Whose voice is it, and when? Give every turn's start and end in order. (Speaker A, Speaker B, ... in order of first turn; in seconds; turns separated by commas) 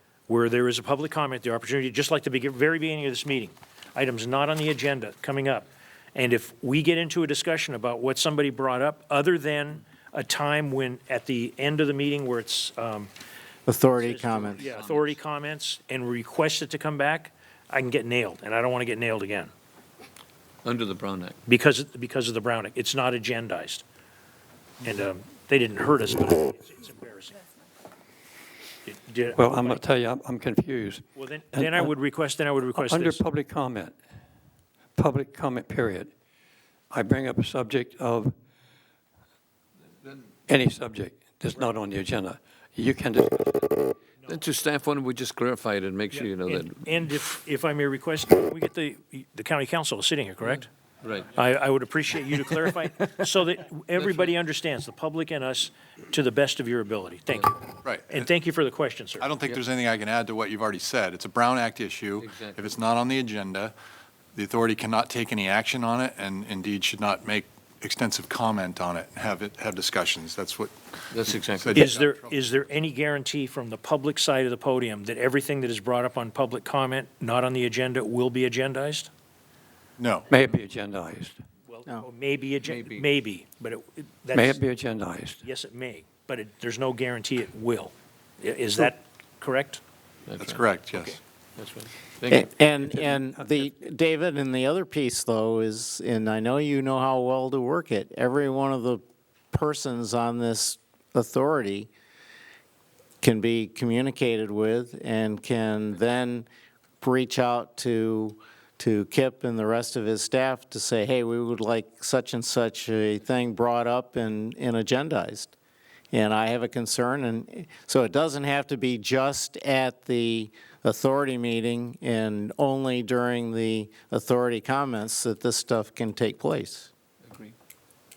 Speaker A: 0.3-13.1, Speaker B: 13.7-14.6, Speaker A: 14.0-19.5, Speaker C: 14.4-15.2, Speaker C: 20.6-21.4, Speaker A: 21.5-23.8, Speaker A: 24.8-27.4, Speaker A: 28.9-29.8, Speaker D: 29.4-31.9, Speaker A: 31.1-33.2, Speaker D: 32.7-33.9, Speaker D: 35.0-36.1, Speaker D: 36.9-38.3, Speaker D: 40.5-43.9, Speaker C: 44.2-46.9, Speaker A: 46.1-50.7, Speaker C: 51.0-51.3, Speaker A: 51.3-59.6, Speaker E: 57.8-58.3, Speaker E: 59.2-63.7, Speaker C: 62.2-62.8, Speaker E: 64.3-72.4, Speaker C: 71.1-71.9, Speaker A: 71.7-79.1, Speaker E: 80.0-80.3, Speaker D: 80.3-81.4, Speaker A: 81.7-84.6, Speaker C: 82.6-83.1, Speaker D: 84.3-85.4, Speaker A: 85.4-89.8, Speaker C: 90.3-90.6, Speaker E: 90.4-91.2, Speaker C: 91.6-92.5, Speaker B: 92.3-101.9, Speaker D: 92.9-93.7, Speaker B: 103.2-106.5, Speaker B: 107.0-115.5, Speaker B: 116.1-126.9, Speaker C: 127.2-127.5